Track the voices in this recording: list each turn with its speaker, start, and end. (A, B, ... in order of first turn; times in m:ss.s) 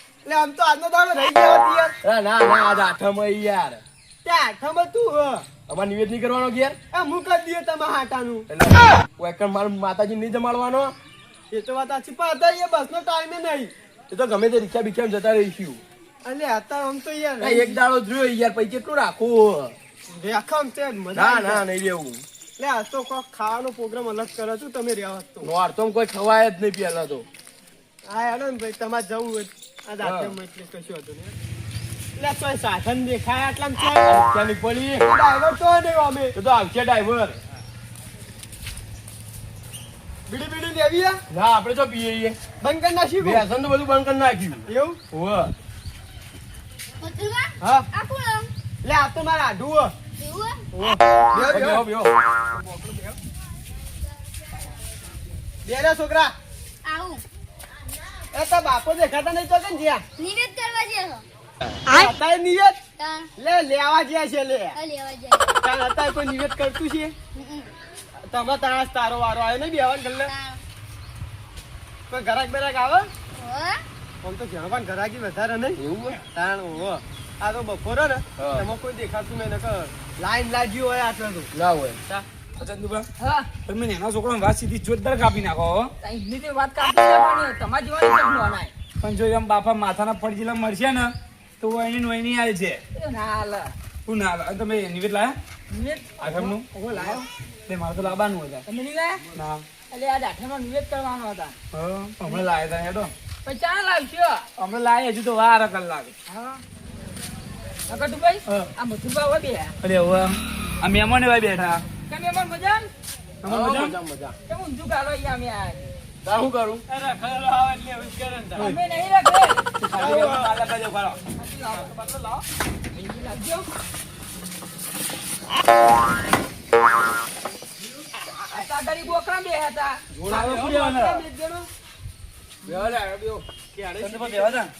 0:00.2-0:02.0 A
0:02.0-0:03.8 B
0:04.2-0:05.5 A
0:05.7-0:06.8 B
0:06.9-0:08.5 A
0:08.5-0:11.0 B
0:11.5-0:13.7 A
0:14.1-0:15.8 B
0:16.2-0:17.8 A
0:17.4-0:19.8 B
0:20.1-0:21.6 A
0:21.1-0:22.2 B
0:22.6-0:25.5 A
0:25.4-0:27.3 B
0:28.1-0:31.4 A
0:30.0-0:30.4 B
0:32.2-0:34.0 A
0:34.1-0:35.1 B
0:35.0-0:36.3 A
0:36.3-0:37.4 B
0:40.3-0:41.2 A
0:41.3-0:42.4 B
0:42.6-0:43.4 A
0:43.2-0:45.5 B
0:44.7-0:45.0 A
0:47.0-0:48.5 C
0:47.6-0:47.9 A
0:48.8-0:49.9 A
0:50.2-0:50.6 C
0:50.7-0:51.9 A
0:51.3-0:52.2 B
0:52.5-0:53.2 A
0:55.6-0:56.4 A
0:56.8-0:57.2 C
0:58.3-1:00.1 A
1:00.2-1:01.2 C
1:01.9-1:02.8 A
1:03.0-1:03.3 C
1:03.4-1:04.8 A
1:04.7-1:05.6 C
1:05.6-1:07.2 A
1:07.4-1:07.7 C
1:08.2-1:10.3 A
1:10.2-1:10.6 C
1:12.1-1:13.1 A
1:13.3-1:13.8 C
1:14.2-1:15.8 A
1:15.8-1:16.2 B
1:16.4-1:21.5 A
1:18.4-1:18.7 B
1:21.5-1:22.0 B
1:22.6-1:23.1 D
1:23.2-1:23.5 E
1:23.7-1:25.9 D
1:26.0-1:28.7 E
1:29.0-1:32.8 D
1:33.0-1:33.7 E
1:34.1-1:35.4 D
1:35.7-1:37.3 E
1:36.2-1:37.1 D
1:37.7-1:38.6 D
1:38.7-1:39.3 E
1:39.3-1:39.6 D
1:39.9-1:41.6 E
1:41.7-1:43.1 D
1:43.4-1:44.5 E
1:44.6-1:46.1 D
1:46.3-1:46.6 E
1:47.9-1:49.8 E
1:49.8-1:51.8 D
1:52.1-1:52.9 E
1:53.4-1:53.9 D
1:53.4-1:54.4 B
1:54.5-1:55.9 E
1:56.2-1:56.8 B
1:56.9-1:58.7 A
1:58.6-1:59.7 E
1:59.8-2:01.2 D
1:59.9-2:00.5 A
2:01.4-2:02.0 E
2:01.7-2:02.4 A
2:02.9-2:03.7 E
2:08.4-2:10.0 E
2:10.1-2:11.2 D
2:10.3-2:11.7 A
2:12.6-2:13.4 B
2:13.7-2:14.6 A
2:14.0-2:14.7 D